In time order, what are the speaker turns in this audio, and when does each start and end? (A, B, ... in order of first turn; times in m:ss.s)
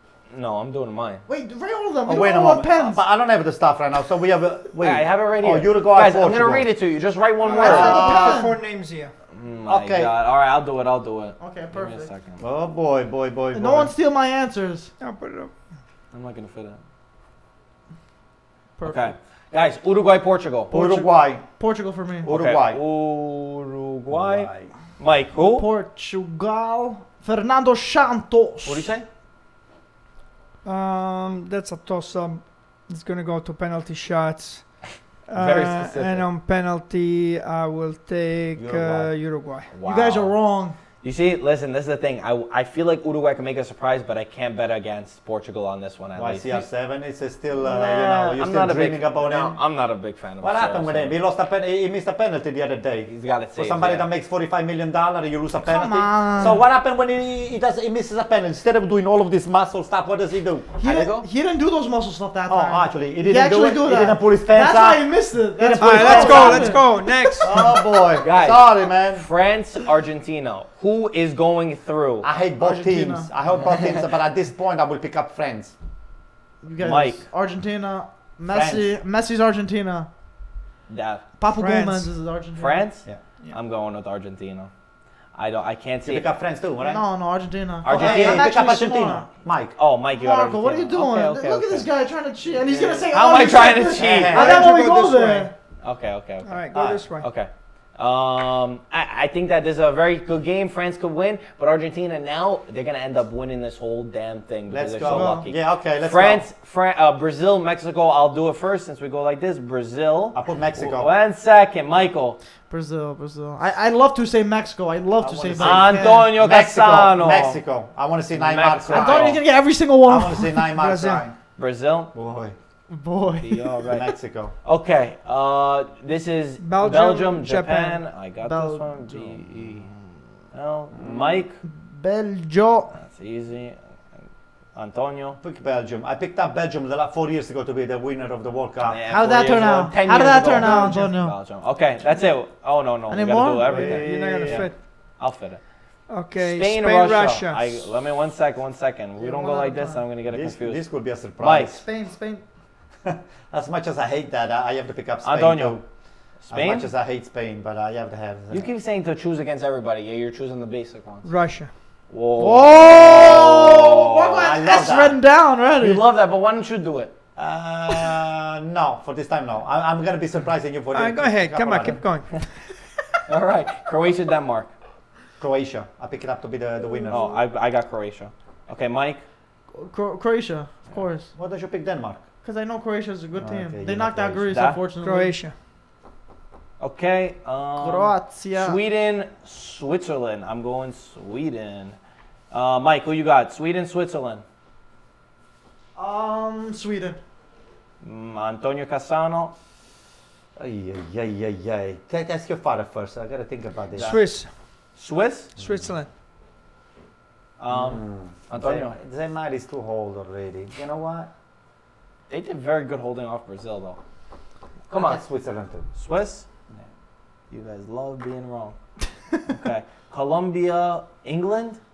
0:00.3-0:01.2 A
0:01.3-0:03.0 B
0:02.0-0:06.7 C
0:04.8-0:08.3 A
0:07.4-0:08.5 B
0:07.5-0:09.1 D
0:07.6-0:08.1 C
0:09.3-0:12.4 A
0:09.7-0:10.1 C
0:11.4-0:12.1 B
0:12.4-0:13.9 C
0:13.5-0:14.9 B
0:15.0-0:15.5 D
0:16.1-0:16.8 A
0:18.8-0:19.1 B
0:18.8-0:20.7 A
0:20.7-0:21.4 C
0:20.7-0:22.3 B
0:22.2-0:22.8 C
0:22.2-0:25.6 A
0:24.1-0:24.7 C
0:25.4-0:28.9 B
0:28.6-0:29.0 A
0:30.6-0:34.7 D
0:35.3-0:39.7 D
0:35.3-0:36.3 A
0:38.5-0:39.1 C
0:39.7-0:40.3 A
0:39.8-0:40.8 B
0:41.0-0:46.6 A
0:46.2-0:49.6 C
0:47.6-0:51.2 A
0:50.4-1:00.7 C
0:53.0-0:54.1 A
0:55.6-0:56.6 B
1:00.8-1:07.7 B
1:00.8-1:01.2 A
1:02.5-1:05.0 C
1:05.6-1:06.8 C
1:05.7-1:07.6 D
1:07.4-1:09.2 C
1:08.2-1:12.3 A
1:12.2-1:15.7 C
1:12.6-1:13.3 B
1:16.6-1:20.1 B
1:16.8-1:17.2 A
1:18.5-1:18.9 C
1:20.9-1:21.2 A
1:21.4-1:22.8 B
1:21.5-1:22.1 D
1:22.6-1:24.7 A
1:25.4-1:26.2 A
1:26.0-1:27.0 C
1:26.8-1:29.3 B
1:27.8-1:28.5 A
1:27.8-1:29.8 C
1:29.8-1:31.9 A
1:30.2-1:35.5 B
1:32.6-1:34.4 A
1:34.0-1:35.5 C
1:34.3-1:35.4 D
1:35.8-1:36.6 A
1:36.4-1:37.3 D
1:36.7-1:37.0 C
1:37.2-1:52.4 A
1:44.7-1:46.4 C
1:45.0-1:45.4 B
1:50.3-1:51.1 C
1:52.7-1:56.3 B
1:55.2-1:59.4 C
1:55.6-1:57.6 A
1:58.3-1:59.4 A
1:58.9-2:00.7 B
2:00.0-2:01.4 C
2:00.7-2:01.2 D
2:01.6-2:02.1 A
2:02.1-2:02.6 C
2:02.9-2:03.7 B
2:03.4-2:04.1 A
2:03.8-2:04.5 C
2:04.6-2:09.9 A
2:06.6-2:08.0 D
2:08.4-2:09.4 B
2:10.5-2:11.6 A
2:10.9-2:11.4 C
2:11.6-2:12.9 B
2:12.9-2:13.8 A
2:14.7-2:15.4 A
2:15.4-2:19.0 C
2:18.8-2:25.6 A
2:19.1-2:21.4 B
2:20.6-2:21.0 D
2:23.1-2:23.9 B
2:23.7-2:24.7 C
2:23.7-2:24.8 D
2:26.1-2:27.8 D
2:26.4-2:30.8 A
2:29.2-2:30.0 B
2:30.3-2:31.8 C
2:31.4-2:31.8 A
2:31.8-2:32.4 B
2:33.0-2:35.8 C
2:35.2-2:35.8 A
2:36.4-2:36.9 A
2:36.5-2:38.7 C
2:38.5-2:41.3 A
2:41.2-2:41.7 D
2:42.1-2:44.5 A
2:42.4-2:46.0 B
2:44.4-2:45.2 C
2:45.8-2:47.1 A
2:47.4-2:52.0 C
2:50.9-2:52.4 D
2:53.3-2:54.7 A
2:55.4-2:57.2 C
2:57.1-2:59.2 A
2:59.7-3:01.3 B
3:01.4-3:02.2 C
3:02.4-3:05.3 B
3:03.3-3:04.7 C
3:04.5-3:04.8 A
3:05.0-3:05.5 D
3:06.8-3:12.0 A
3:07.8-3:08.8 B
3:12.5-3:14.4 A
3:16.0-3:17.2 B
3:18.0-3:19.5 A
3:20.6-3:24.2 C
3:24.0-3:24.5 D
3:25.0-3:25.5 A
3:25.6-3:26.1 D
3:27.6-3:29.0 A
3:27.7-3:31.3 C
3:32.3-3:34.0 A
3:34.9-3:35.2 A
3:34.9-3:35.9 C
3:35.9-3:36.5 A
3:37.5-3:38.8 A
3:39.5-3:41.8 A